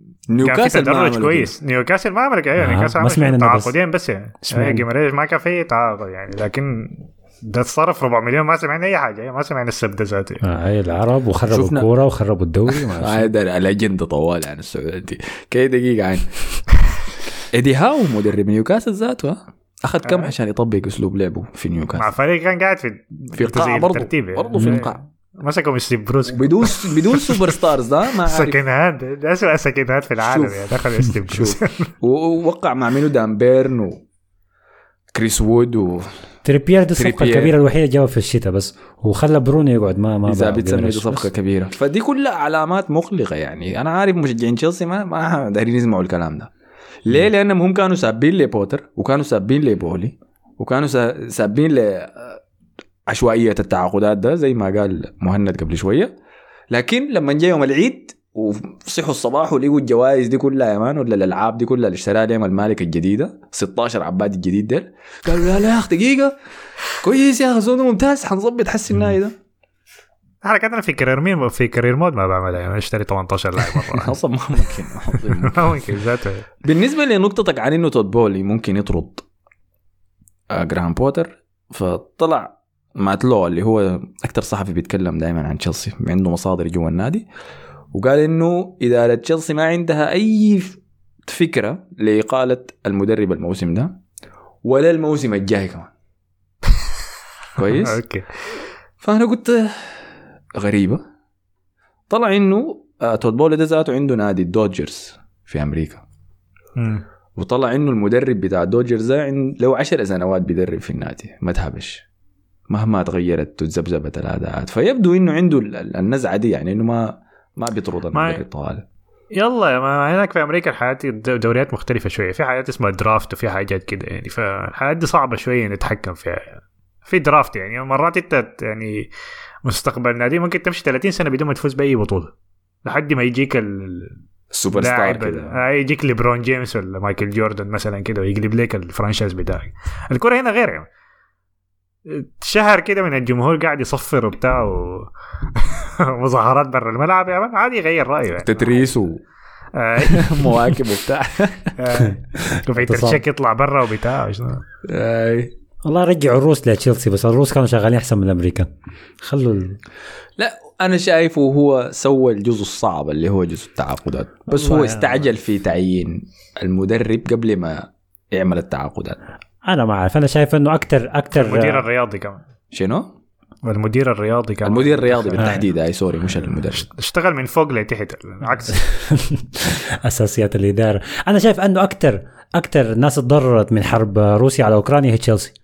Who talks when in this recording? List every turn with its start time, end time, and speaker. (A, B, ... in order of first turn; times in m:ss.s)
0:00.3-0:01.5 A
0:00.4-0:10.4 B
0:02.6-0:03.7 C
0:04.5-0:04.8 C
0:10.4-0:13.3 C
0:11.5-0:11.9 A
0:12.7-0:16.3 A
0:17.5-0:22.1 A
0:20.0-0:20.3 B
0:22.0-0:27.5 B
0:23.3-0:25.0 A
0:24.5-0:24.8 C
0:26.3-0:28.6 A
0:28.2-0:31.9 B
0:30.2-0:30.8 A
0:31.3-0:34.0 A
0:35.1-0:36.1 A
0:36.4-0:41.3 C
0:37.0-0:37.5 A
0:40.3-0:46.5 A
0:47.0-0:52.4 A
0:53.1-0:56.1 A
0:56.7-1:06.3 A
1:07.0-1:09.4 A
1:10.4-1:14.2 B
1:13.9-1:15.7 A
1:15.3-1:16.4 B
1:16.6-1:19.2 A
1:20.5-1:27.2 A
1:27.9-1:34.0 A
1:34.6-1:35.9 A
1:37.6-1:38.0 A
1:37.7-1:38.3 B
1:39.0-1:40.0 A
1:40.6-1:41.0 A
1:42.1-1:46.0 A
1:46.8-1:47.0 B
1:47.4-1:52.0 A
1:52.7-1:58.8 A
1:58.1-1:58.4 B
1:59.3-2:09.1 B
2:09.6-2:12.3 B
2:12.8-2:14.1 B
2:14.5-2:15.6 A
2:14.7-2:20.8 B
2:22.0-2:28.7 B
2:28.4-2:29.2 A
2:29.7-2:30.5 B
2:30.1-2:31.8 A
2:31.8-2:34.6 B
2:32.4-2:33.2 C
2:34.8-2:35.5 A
2:35.8-2:38.7 C
2:39.2-2:39.8 C
2:40.4-2:49.2 A
2:44.5-2:45.2 C
2:49.6-2:51.8 C
2:51.3-2:52.4 B
2:52.7-2:53.1 A
2:53.6-2:55.6 B
2:54.6-2:56.9 A
2:56.9-2:58.8 B
2:58.8-3:05.6 C